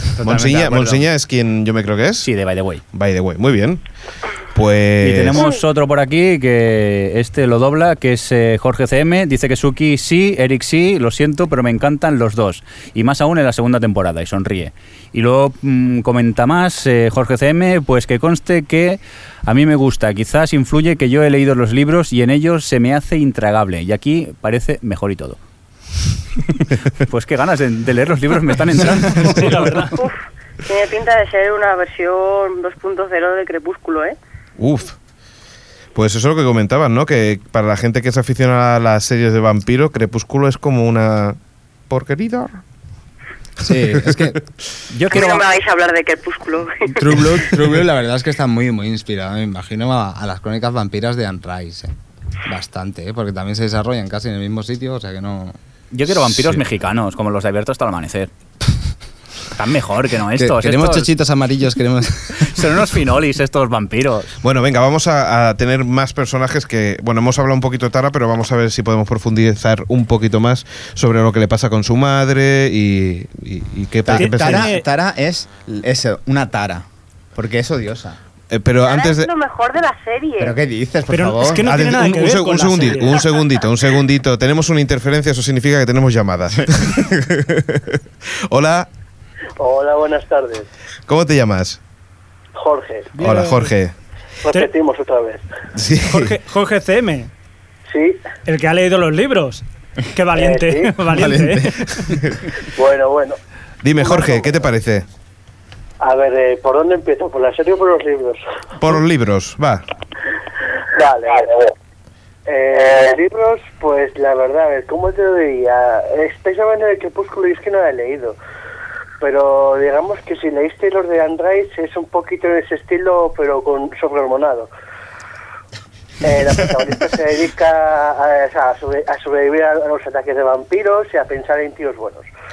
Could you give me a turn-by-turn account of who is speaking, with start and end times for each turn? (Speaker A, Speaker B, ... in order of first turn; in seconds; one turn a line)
Speaker A: 0.1-1.0
Speaker B: 0.2-2.3
Speaker C: 2.2-2.8
Speaker B: 2.9-3.8
Speaker B: 4.5-5.4
Speaker C: 5.0-25.4
Speaker D: 5.3-5.6
Speaker C: 27.0-29.9
Speaker E: 29.1-29.9
Speaker D: 29.9-34.2
Speaker B: 34.6-35.0
Speaker B: 35.9-41.4
Speaker B: 41.9-42.6
Speaker F: 43.6-44.4
Speaker B: 43.9-44.3
Speaker C: 44.9-45.4
Speaker D: 45.1-47.0
Speaker F: 46.9-51.9
Speaker F: 52.5-55.5
Speaker C: 55.9-58.3
Speaker C: 59.5-61.1
Speaker F: 60.4-62.8
Speaker C: 62.4-64.4
Speaker B: 64.4-74.7
Speaker A: 74.0-78.2
Speaker E: 74.1-74.8
Speaker B: 78.5-79.3
Speaker D: 78.8-80.6
Speaker A: 80.4-81.7
Speaker E: 81.1-83.2
Speaker B: 81.6-88.9
Speaker G: 89.6-90.7
Speaker B: 91.1-91.8
Speaker G: 92.5-93.2
Speaker B: 93.2-93.9
Speaker E: 93.2-93.7
Speaker G: 94.5-95.5
Speaker B: 95.7-96.3
Speaker E: 96.0-97.3
Speaker G: 97.9-98.2
Speaker E: 98.4-101.8
Speaker G: 100.3-101.0
Speaker A: 101.2-101.6
Speaker B: 102.0-102.3
Speaker G: 102.7-103.4
Speaker B: 103.8-105.0
Speaker G: 104.0-104.6
Speaker G: 106.0-108.4
Speaker B: 108.8-109.8
Speaker G: 110.9-111.7
Speaker G: 112.5-118.3
Speaker G: 119.2-124.7
Speaker G: 126.2-132.3